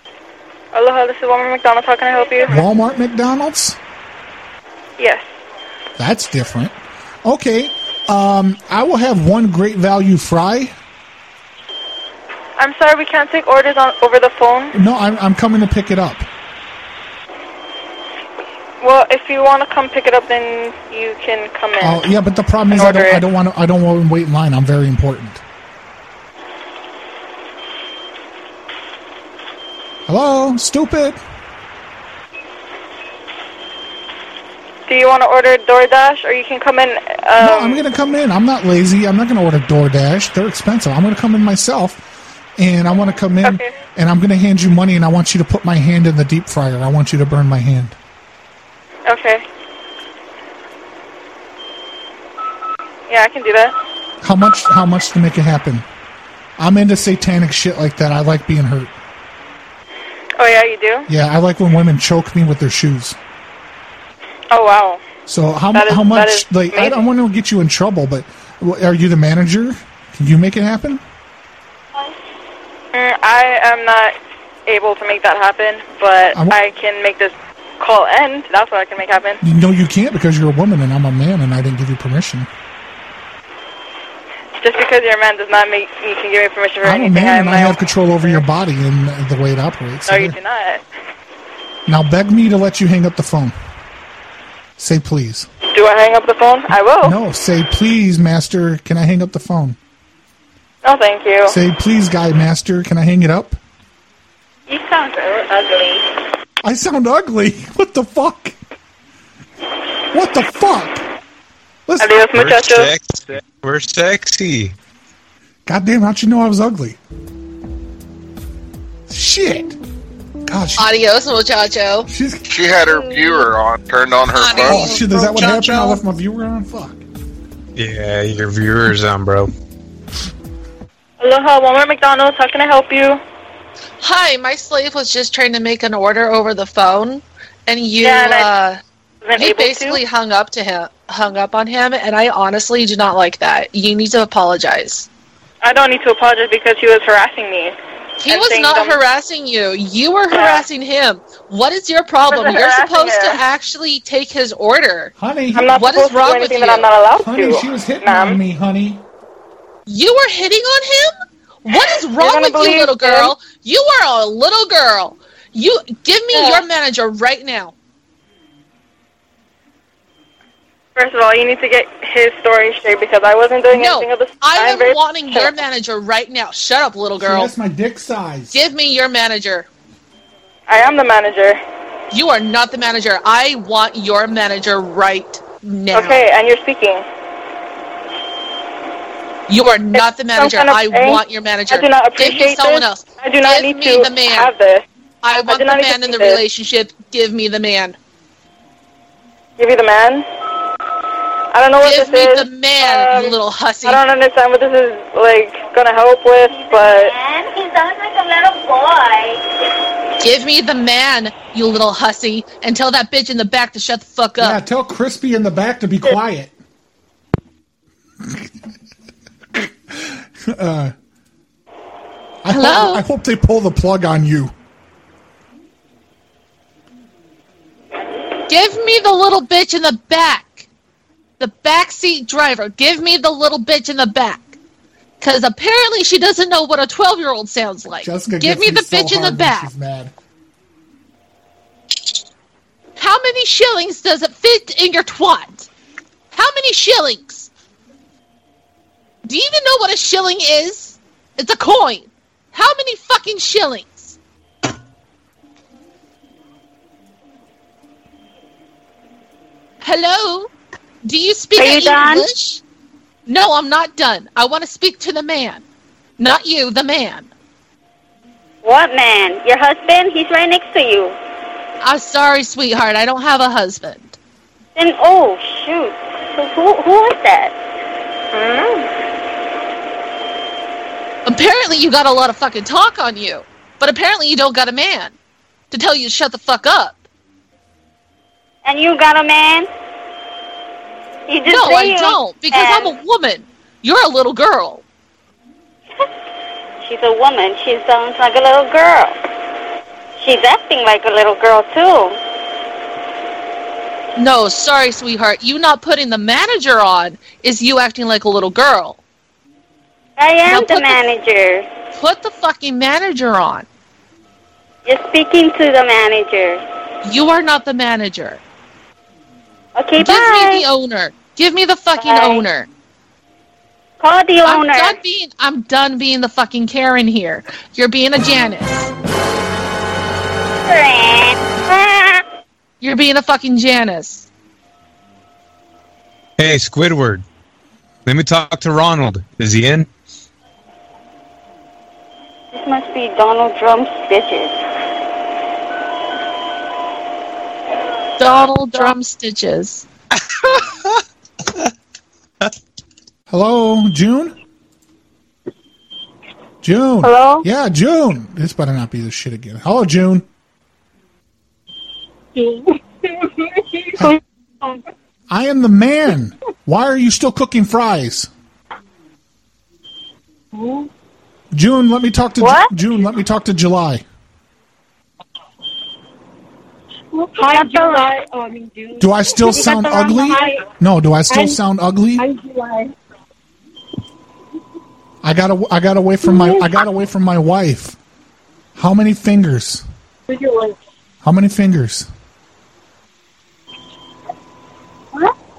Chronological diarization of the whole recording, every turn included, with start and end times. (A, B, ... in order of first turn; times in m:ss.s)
0:00.7-0:02.6 A
0:02.5-0:03.8 B
0:05.0-0:05.2 A
0:06.0-0:06.7 B
0:07.2-0:10.7 B
0:12.6-0:14.7 A
0:14.7-0:16.3 B
0:18.8-0:22.0 A
0:21.8-0:25.4 B
0:22.7-0:23.2 A
0:30.1-0:31.2 B
0:34.9-0:37.8 A
0:37.4-0:42.0 B
0:42.6-0:48.0 B
0:43.4-0:43.7 A
0:49.1-0:49.4 A
0:53.1-0:53.7 A
0:54.2-0:55.8 B
0:56.6-0:58.9 B
1:00.4-1:01.1 A
1:01.1-1:03.2 B
1:04.5-1:05.0 A
1:05.3-1:11.0 B
1:05.7-1:07.0 A
1:12.9-1:19.4 A
1:16.3-1:16.6 B
1:19.4-1:22.5 B
1:24.6-1:28.4 A
1:26.8-1:30.4 B
1:30.1-1:30.8 A
1:31.9-1:33.6 B
1:34.8-1:35.5 B
1:35.7-1:37.2 A
1:37.0-1:39.8 B
1:40.8-1:41.6 A
1:41.5-1:43.6 B
1:44.7-1:46.0 C
1:46.6-1:48.6 B
1:50.1-1:51.1 B
1:51.9-1:52.2 B
1:52.0-1:52.9 A
1:52.4-1:54.8 D
1:55.7-1:57.0 B
1:59.1-1:59.8 B
2:00.5-2:00.9 B
2:00.8-2:02.1 E
2:02.1-2:02.5 B
2:02.5-2:05.0 F
2:04.3-2:06.0 E
2:04.5-2:07.0 B
2:07.8-2:09.5 D
2:11.2-2:13.2 A
2:14.0-2:18.8 E
2:18.0-2:18.5 A
2:19.2-2:20.0 A
2:19.4-2:25.1 E
2:25.6-2:27.8 A
2:28.2-2:35.1 E
2:28.3-2:29.0 A
2:30.3-2:30.6 A
2:32.3-2:33.4 A
2:35.2-2:35.8 B
2:35.5-2:38.4 A
2:35.7-2:36.9 E
2:37.2-2:39.0 B
2:39.9-2:41.1 E
2:41.6-2:47.7 E
2:41.7-2:43.4 A
2:46.3-2:46.6 A
2:51.0-2:55.5 A
2:53.7-2:57.5 E
2:57.2-2:58.6 B
2:58.5-2:59.7 E
3:00.7-3:01.6 A
3:02.1-3:06.2 E
3:05.9-3:07.0 A
3:09.5-3:14.5 E
3:09.9-3:14.8 A
3:15.2-3:18.0 E
3:15.4-3:16.4 A
3:19.6-3:20.2 A
3:21.5-3:27.1 A
3:21.8-3:24.0 E
3:26.4-3:29.4 C
3:30.2-3:34.6 E
3:34.4-3:36.5 B
3:39.5-3:40.9 B
3:42.4-3:44.5 B
3:42.5-3:43.0 E
3:48.5-3:50.7 E
3:51.4-3:54.6 E
3:55.2-3:59.7 E
3:58.0-4:00.1 B
4:03.0-4:05.7 E
4:06.3-4:07.5 E
4:09.2-4:14.2 E
4:19.8-4:20.5 E
4:21.0-4:22.6 E
4:21.6-4:22.3 C
4:23.3-4:25.6 E
4:26.2-4:27.3 E
4:28.6-4:31.2 C
4:31.8-4:34.2 E
4:34.8-4:37.5 C
4:38.3-4:38.9 A
4:41.2-4:45.2 E
4:45.7-4:47.0 E
4:48.6-4:49.7 C
4:51.3-4:52.9 C
4:51.5-4:54.8 E
4:56.8-4:59.1 C
5:00.2-5:02.2 C
5:04.2-5:09.0 E
5:10.2-5:11.7 C
5:10.4-5:11.1 E
5:11.9-5:13.7 E
5:14.8-5:16.6 C
5:17.0-5:18.4 E
5:19.8-5:20.6 C
5:20.0-5:22.7 E
5:22.0-5:22.4 C
5:24.0-5:25.0 C
5:24.4-5:28.9 E
5:30.6-5:32.2 C
5:32.8-5:34.3 E
5:36.4-5:37.2 D
5:38.1-5:39.9 D
5:42.5-5:44.5 C
5:48.2-5:49.8 E
5:53.3-5:54.4 B
5:56.6-6:00.3 B
5:57.0-5:57.4 C
6:02.4-6:03.9 G
6:05.3-6:08.3 B
6:10.5-6:10.9 G
6:11.5-6:14.0 B
6:12.4-6:12.7 C
6:17.1-6:20.6 G
6:17.4-6:18.1 C
6:19.0-6:22.3 B
6:21.3-6:21.6 G
6:22.2-6:22.9 G
6:25.2-6:28.0 B
6:26.2-6:26.7 G
6:28.8-6:29.8 B
6:30.3-6:30.8 G
6:31.2-6:32.1 B